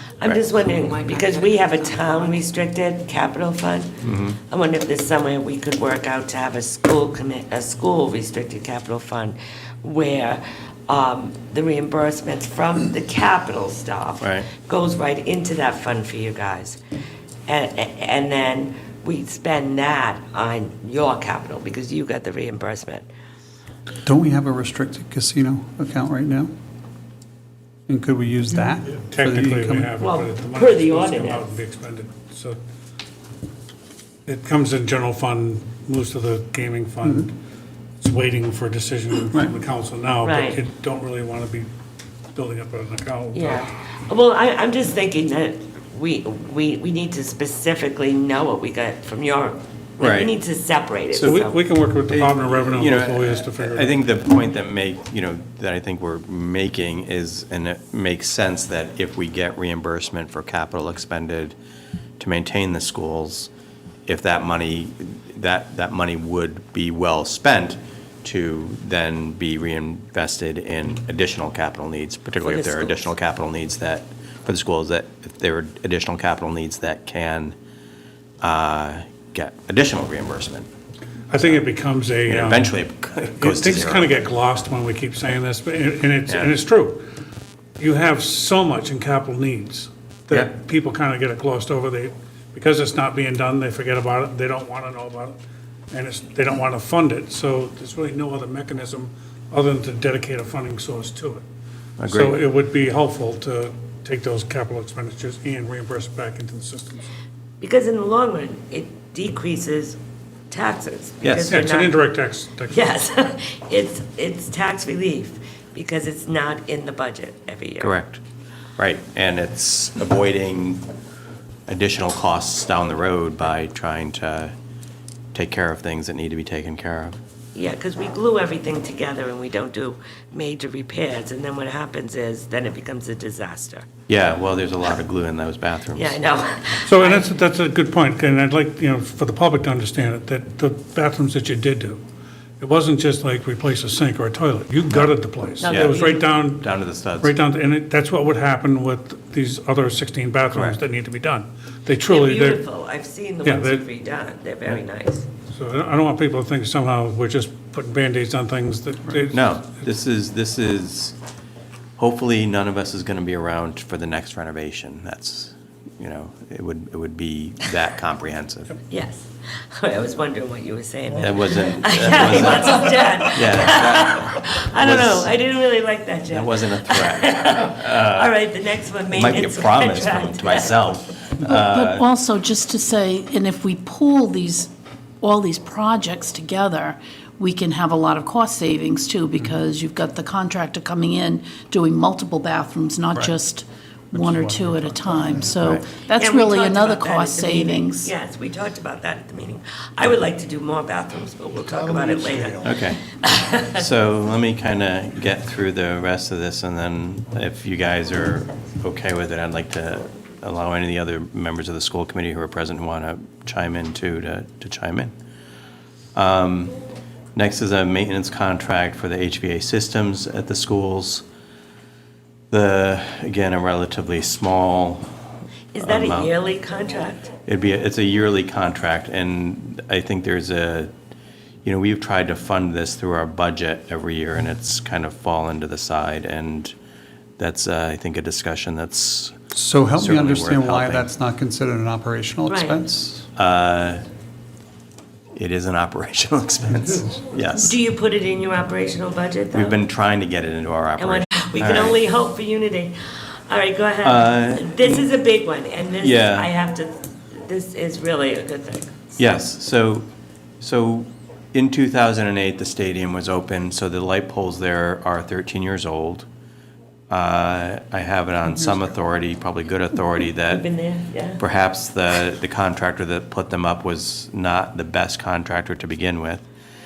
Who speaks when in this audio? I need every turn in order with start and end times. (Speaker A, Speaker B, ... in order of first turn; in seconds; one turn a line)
Speaker A: 0.2-3.9
Speaker B: 4.0-4.4
Speaker A: 4.5-16.8
Speaker B: 14.2-14.5
Speaker A: 17.5-23.1
Speaker C: 24.1-26.5
Speaker C: 27.9-29.9
Speaker D: 28.9-32.6
Speaker A: 30.0-31.5
Speaker D: 34.3-37.4
Speaker D: 38.0-41.7
Speaker A: 40.2-40.6
Speaker D: 42.4-43.7
Speaker A: 43.3-51.6
Speaker B: 50.0-50.3
Speaker B: 51.1-51.4
Speaker D: 51.1-54.0
Speaker B: 52.1-61.6
Speaker B: 62.2-63.5
Speaker B: 64.1-77.6
Speaker A: 72.4-73.1
Speaker B: 78.4-80.7
Speaker D: 81.3-82.7
Speaker B: 81.4-81.7
Speaker B: 82.2-84.2
Speaker D: 83.4-87.0
Speaker B: 86.3-86.5
Speaker D: 87.8-95.4
Speaker D: 95.9-101.5
Speaker B: 102.0-102.4
Speaker D: 102.0-107.1
Speaker A: 107.6-110.0
Speaker A: 110.5-112.0
Speaker B: 111.2-111.7
Speaker D: 111.5-112.9
Speaker A: 112.7-117.9
Speaker B: 117.8-118.2
Speaker B: 118.8-120.8
Speaker B: 121.7-124.5
Speaker B: 125.3-127.2
Speaker A: 127.5-133.9
Speaker B: 134.1-136.2
Speaker A: 135.9-137.3
Speaker D: 136.8-142.0
Speaker D: 142.6-146.7
Speaker B: 144.9-147.3
Speaker A: 145.6-146.4
Speaker D: 147.2-152.6
Speaker B: 150.5-150.8
Speaker A: 152.1-155.3
Speaker D: 153.4-153.8
Speaker D: 155.5-159.5
Speaker B: 159.3-161.2
Speaker B: 162.0-168.8
Speaker A: 168.9-180.9
Speaker B: 171.2-175.3
Speaker B: 176.3-178.4
Speaker B: 179.1-182.1
Speaker E: 181.4-198.1
Speaker C: 194.1-195.6
Speaker B: 195.6-195.9
Speaker A: 196.2-203.8
Speaker B: 202.6-203.0
Speaker B: 203.7-215.1
Speaker B: 216.2-216.7
Speaker B: 217.4-221.2
Speaker B: 222.5-225.1
Speaker A: 225.7-227.3
Speaker B: 225.8-226.3
Speaker B: 227.5-230.9
Speaker B: 231.6-236.7
Speaker B: 237.4-239.4
Speaker C: 239.5-243.3
Speaker B: 239.9-241.1
Speaker A: 242.5-242.8
Speaker B: 243.4-244.0
Speaker B: 245.3-247.8
Speaker A: 247.6-249.8
Speaker B: 249.5-252.0
Speaker A: 251.0-252.9
Speaker A: 253.5-258.9
Speaker B: 254.0-255.1
Speaker B: 256.0-256.5
Speaker B: 259.2-260.1
Speaker B: 260.6-266.3
Speaker B: 267.1-270.6
Speaker A: 270.4-271.4
Speaker B: 271.4-276.5